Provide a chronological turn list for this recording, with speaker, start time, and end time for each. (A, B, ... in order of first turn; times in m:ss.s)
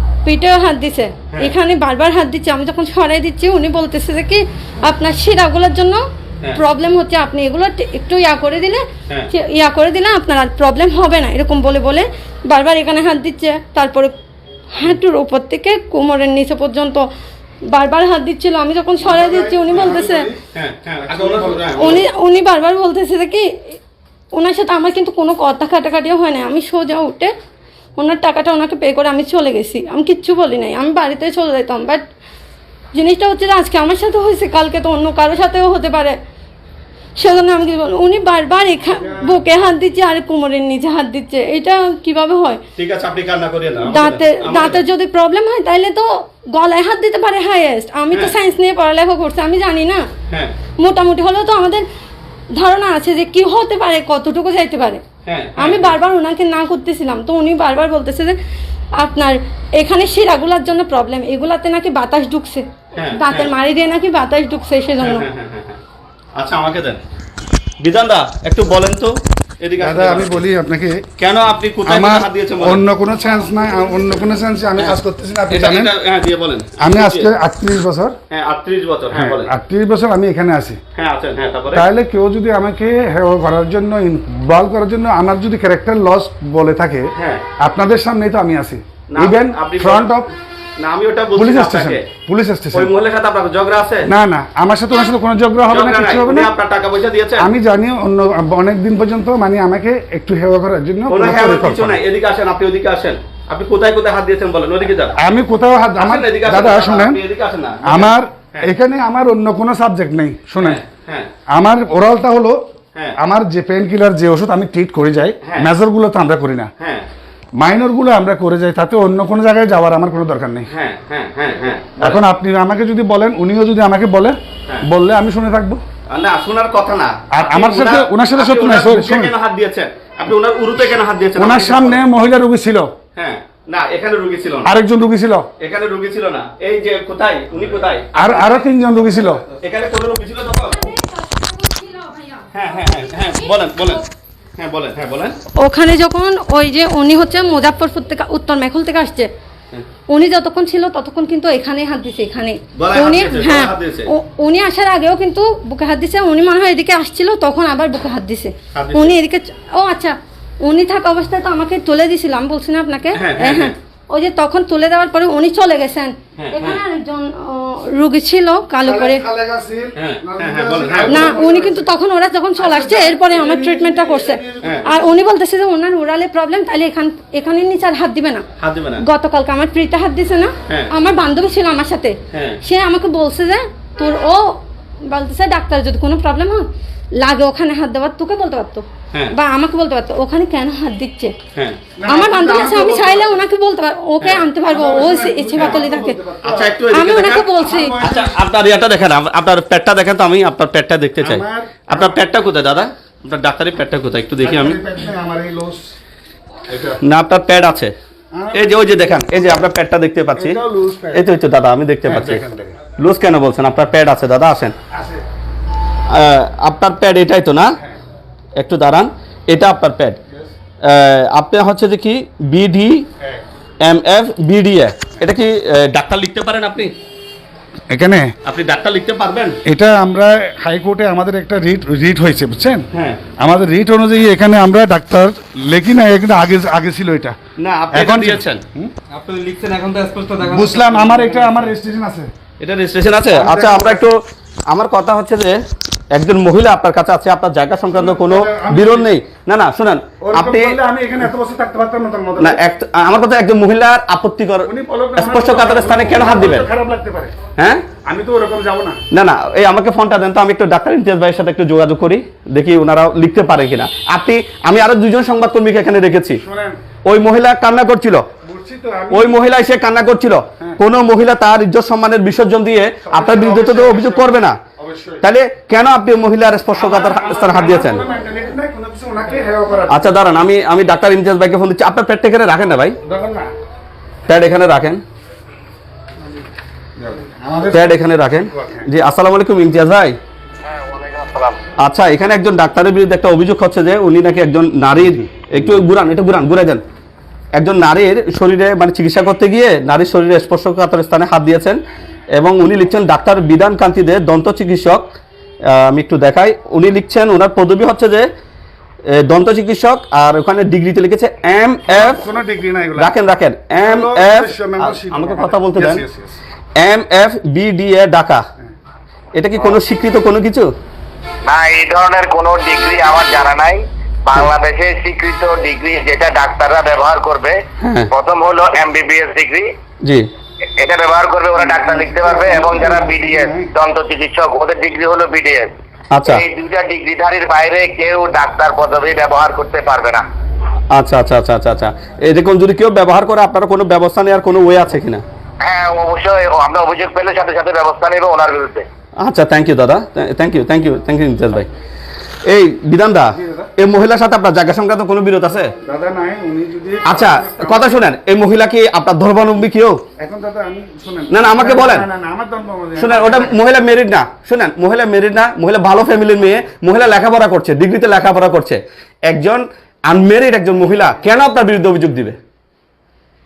0:00.2-0:14.1 A
0:14.7-0:17.1 A
0:17.7-0:20.3 A
0:19.0-0:20.4 B
0:20.5-0:22.0 C
0:21.0-0:22.0 B
0:21.7-0:23.5 A
0:24.3-0:27.3 A
0:28.0-0:32.0 A
0:32.9-0:36.2 A
0:37.2-0:42.6 A
0:38.9-0:39.4 B
0:42.8-0:44.8 C
0:43.9-0:50.1 A
0:50.3-0:50.6 C
0:50.8-0:51.8 A
0:52.6-0:55.0 A
0:55.2-0:56.0 C
0:55.6-0:58.4 A
0:59.0-1:05.3 A
1:03.0-1:03.5 C
1:05.0-1:05.8 C
1:06.4-1:07.0 C
1:07.8-1:10.4 C
1:09.8-1:11.0 B
1:11.2-1:12.8 C
1:11.8-1:15.9 B
1:15.5-1:17.3 C
1:16.8-1:18.2 B
1:18.3-1:19.5 C
1:19.1-1:20.8 B
1:21.0-1:21.9 C
1:21.7-1:30.3 B
1:27.2-1:27.4 C
1:29.1-1:30.2 C
1:30.8-1:32.1 C
1:31.4-1:32.9 B
1:32.7-1:34.1 C
1:34.1-1:36.5 B
1:35.7-1:37.5 C
1:37.4-1:42.0 B
1:41.1-1:45.2 C
1:45.2-1:47.2 B
1:46.0-1:48.7 C
1:47.8-1:50.8 B
1:50.6-1:51.3 C
1:51.5-1:52.6 B
1:53.2-1:56.7 B
1:55.4-1:55.7 C
1:56.8-1:57.1 C
1:57.6-2:00.7 B
2:00.7-2:02.2 C
2:02.0-2:05.8 B
2:06.1-2:12.0 C
2:07.3-2:09.3 B
2:11.4-2:12.9 B
2:13.2-2:14.7 C
2:14.6-2:15.5 B
2:15.6-2:18.7 C
2:18.2-2:19.4 B
2:19.6-2:21.0 C
2:20.7-2:24.1 A
2:22.5-2:24.0 C
2:24.6-2:25.4 C
2:25.6-2:29.3 A
2:30.1-2:49.2 A
2:32.8-2:34.1 C
2:38.7-2:39.2 C
2:43.2-2:43.8 C
2:46.4-2:46.8 C
2:48.8-2:51.9 B
2:50.0-2:51.4 C
2:51.1-2:58.4 A
2:52.6-2:55.2 B
2:54.6-2:54.9 C
2:58.6-2:59.0 C
2:59.0-3:06.7 A
3:02.3-3:02.6 C
3:07.2-3:11.4 A
3:11.6-3:11.8 C
3:12.0-3:13.4 B
3:12.1-3:16.2 A
3:14.6-3:16.8 B
3:15.6-3:15.8 C
3:16.4-3:17.5 C
3:16.9-3:18.0 A
3:17.6-3:18.4 B
3:18.0-3:24.8 C
3:21.2-3:22.2 B
3:24.4-3:25.9 B
3:26.7-3:27.0 B
3:27.0-3:27.9 C
3:28.3-3:29.6 B
3:28.5-3:30.6 C
3:30.4-3:31.2 B
3:31.1-3:32.4 C
3:32.0-3:32.8 B
3:33.0-3:34.8 C
3:34.9-3:35.2 B
3:36.1-3:37.8 C
3:38.6-3:40.2 C
3:40.8-3:43.1 C
3:43.2-3:43.4 B
3:43.8-3:46.9 C
3:47.9-3:48.4 B
3:48.4-3:49.6 C
3:49.6-3:52.9 B
3:52.9-3:53.2 C
3:53.4-3:57.4 B
3:57.6-3:58.6 C
3:57.9-3:58.9 B
3:59.1-4:01.6 D
3:59.3-3:59.9 C
4:00.4-4:02.3 B
4:02.6-4:10.8 C
4:03.3-4:04.1 B
4:07.9-4:09.2 B
4:10.2-4:12.6 B
4:12.4-4:16.7 C
4:14.7-4:17.4 B
4:17.6-4:17.8 C
4:18.0-4:19.0 B
4:19.1-4:26.4 C
4:26.4-4:26.8 B
4:27.0-4:28.3 C
4:28.4-4:29.4 B
4:29.1-4:34.6 C
4:33.0-4:35.2 B
4:35.2-4:38.1 C
4:36.7-4:40.2 B
4:39.9-4:43.0 C
4:43.0-4:43.5 B
4:44.3-4:45.0 C
4:47.0-4:48.9 B
4:47.7-4:50.2 C
4:50.6-4:51.6 E
4:51.8-4:56.8 C
4:57.6-5:01.8 C
5:02.3-5:05.1 C
5:05.7-5:08.3 C
5:09.1-5:12.2 C
5:11.9-5:13.1 B
5:13.0-5:16.0 C
5:13.7-5:16.4 B
5:16.8-5:18.4 C
5:19.4-5:20.7 C
5:21.5-5:27.6 E
5:27.8-5:28.1 C
5:28.1-5:29.7 E
5:30.8-5:35.7 E
5:31.5-5:33.7 B
5:36.1-5:36.4 C
5:36.2-5:40.2 E
5:40.9-5:45.2 C
5:45.6-5:48.9 E
5:49.2-5:51.7 C
5:52.4-5:55.7 C
5:53.3-5:53.7 B
5:55.8-5:58.0 B
5:57.0-6:00.0 C
6:00.2-6:03.6 B
6:01.3-6:02.1 C
6:03.0-6:12.4 C